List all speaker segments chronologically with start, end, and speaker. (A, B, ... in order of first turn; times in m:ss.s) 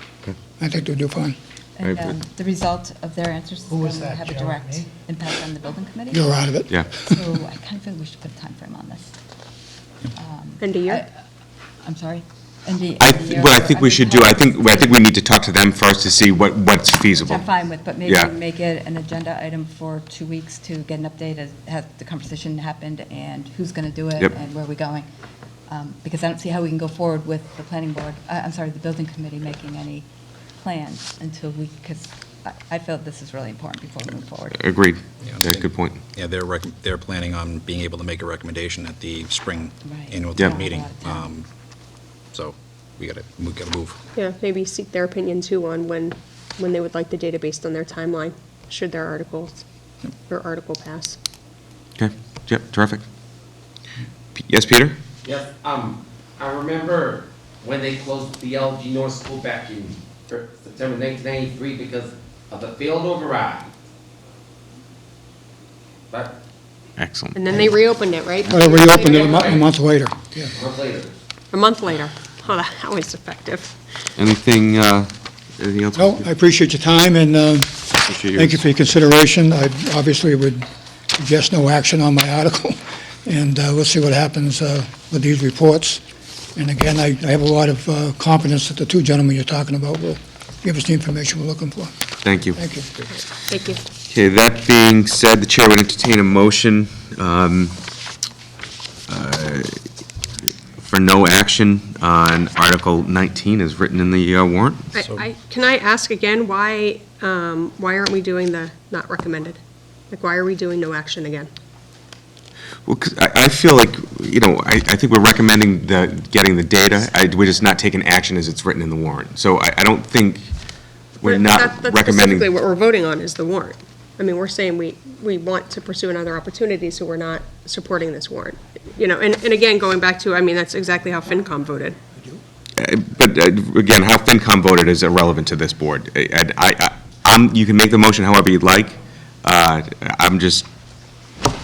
0:00.6-0:01.4 A
0:01.8-0:06.3 B
0:01.8-0:02.1 C
0:06.1-0:07.0 A
0:07.0-0:09.1 B
0:10.1-0:11.1 B
0:10.6-0:11.0 D
0:11.8-0:15.0 B
0:13.0-0:17.4 C
0:17.2-0:25.1 B
0:18.0-0:18.3 C
0:25.7-0:30.0 B
0:30.6-0:34.7 B
0:34.6-0:36.0 C
0:35.2-0:41.5 E
0:39.8-0:41.3 B
0:42.3-0:44.0 E
0:44.1-0:49.6 D
0:50.3-0:51.2 D
0:52.0-0:53.0 C
0:54.4-0:55.0 C
0:55.2-1:03.7 F
1:06.1-1:06.4 F
1:07.0-1:07.4 C
1:07.3-1:09.6 D
1:08.5-1:10.5 A
1:08.9-1:09.6 F
1:10.5-1:11.1 F
1:11.5-1:13.7 D
1:14.2-1:16.3 C
1:16.0-1:26.0 A
1:18.0-1:18.6 C
1:26.6-1:31.9 A
1:32.2-1:32.6 C
1:32.6-1:32.9 A
1:33.5-1:33.8 D
1:34.1-1:37.8 C
1:39.1-1:39.8 C
1:40.8-1:44.9 C
1:44.9-1:49.6 D
1:50.1-1:51.5 D
1:52.8-2:00.4 C
2:01.2-2:02.5 C
2:01.2-2:12.0 D
2:12.8-2:20.7 C